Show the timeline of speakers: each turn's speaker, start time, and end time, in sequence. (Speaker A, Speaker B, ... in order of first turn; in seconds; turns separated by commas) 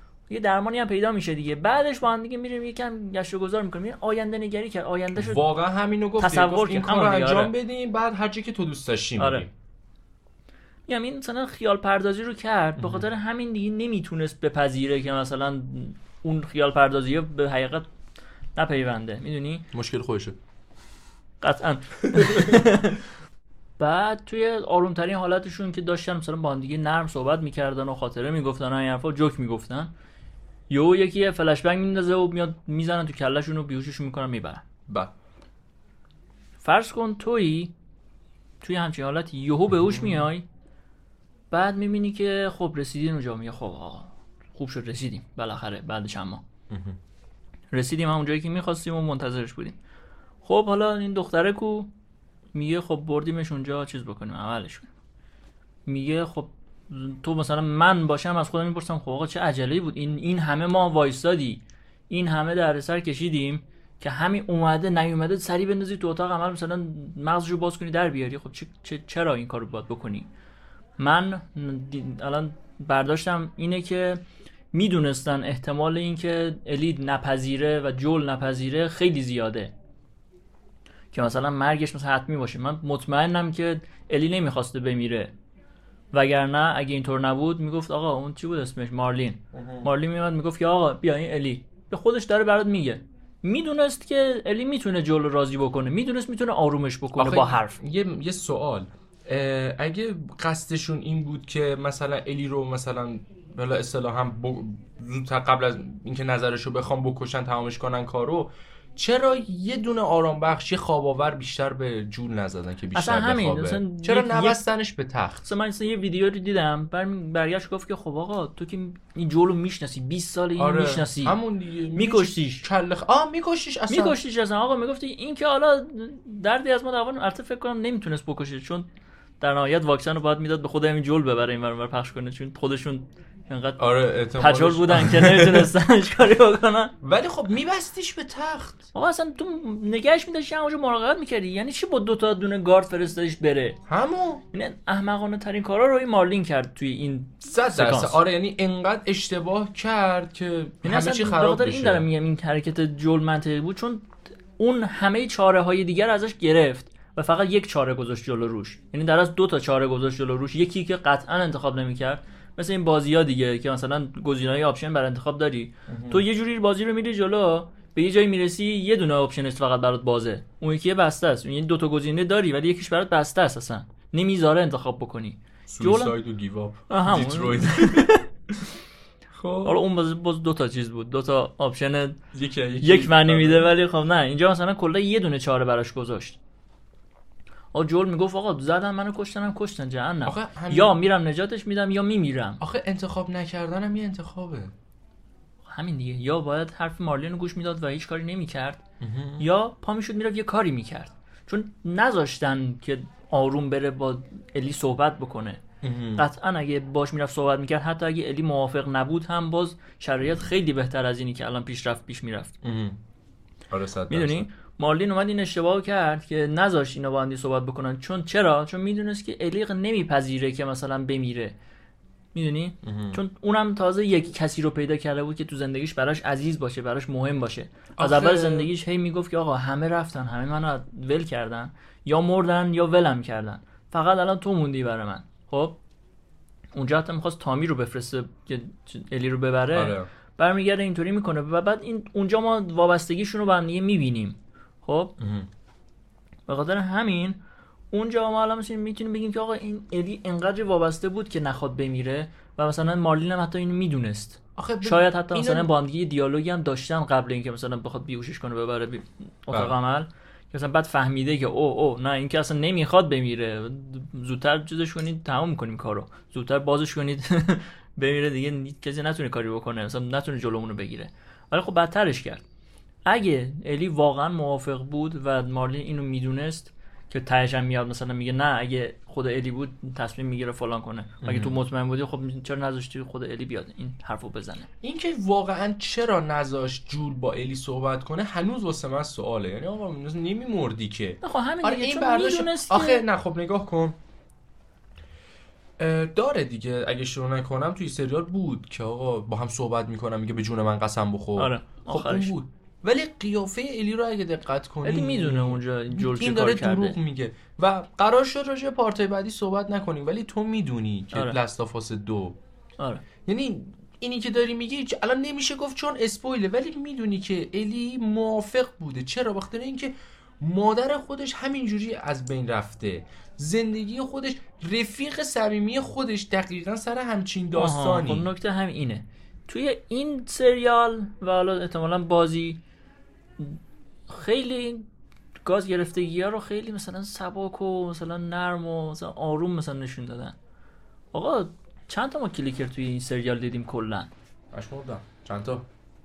Speaker A: 0.3-5.5, Speaker B: 5.2-9.5, Speaker A: 6.2-7.5, Speaker A: 9.2-9.4, Speaker A: 10.9-17.9, Speaker B: 12.8-13.1, Speaker A: 18.6-19.7, Speaker B: 19.7-20.4, Speaker A: 21.4-23.1, Speaker B: 22.1-22.7, Speaker A: 23.8-29.9, Speaker A: 30.7-34.6, Speaker A: 36.6-37.7, Speaker A: 38.6-40.5, Speaker B: 39.7-40.3, Speaker A: 41.5-46.4, Speaker B: 46.7-47.0, Speaker A: 47.7-49.8, Speaker A: 50.4-51.9, Speaker A: 52.5-54.9, Speaker A: 55.9-70.3, Speaker A: 71.0-74.2, Speaker A: 74.7-79.7, Speaker A: 81.1-85.3, Speaker A: 86.1-97.8, Speaker B: 89.5-89.9, Speaker B: 97.2-115.5, Speaker A: 112.9-114.6, Speaker A: 115.5-121.4, Speaker B: 120.6-124.2, Speaker A: 122.0-122.7, Speaker A: 123.9-128.9, Speaker A: 129.4-133.8, Speaker B: 133.8-135.7, Speaker A: 134.3-136.9, Speaker B: 137.0-138.8, Speaker A: 138.9-143.8, Speaker B: 143.9-144.4, Speaker A: 144.5-148.2, Speaker B: 147.4-152.1, Speaker A: 150.8-176.1, Speaker B: 165.9-166.2, Speaker B: 175.7-178.1, Speaker A: 176.9-178.3, Speaker B: 179.3-179.8, Speaker A: 179.6-182.2, Speaker B: 182.3-183.7, Speaker A: 182.8-186.4, Speaker A: 187.7-192.6, Speaker B: 190.3-191.0, Speaker B: 192.6-194.7, Speaker A: 195.7-198.8, Speaker B: 199.0-199.5, Speaker A: 199.4-205.6, Speaker B: 205.8-206.3, Speaker A: 206.2-212.5, Speaker B: 212.6-213.0, Speaker B: 213.7-214.5, Speaker A: 214.1-221.6, Speaker A: 222.3-235.8, Speaker B: 222.8-223.2, Speaker B: 228.0-228.7, Speaker A: 236.7-245.1, Speaker B: 239.7-240.1, Speaker B: 245.2-245.5, Speaker A: 246.5-247.4, Speaker A: 247.9-272.4, Speaker B: 254.6-255.7, Speaker A: 273.1-284.7, Speaker B: 281.2-281.6, Speaker B: 284.8-294.0, Speaker A: 291.2-293.1, Speaker B: 295.8-312.4, Speaker A: 301.4-302.4, Speaker A: 304.8-307.0, Speaker A: 311.1-311.4, Speaker A: 312.8-313.1, Speaker B: 313.3-328.3, Speaker A: 327.5-332.6, Speaker A: 333.4-334.9, Speaker A: 335.4-340.4, Speaker A: 341.1-344.1, Speaker B: 344.5-345.7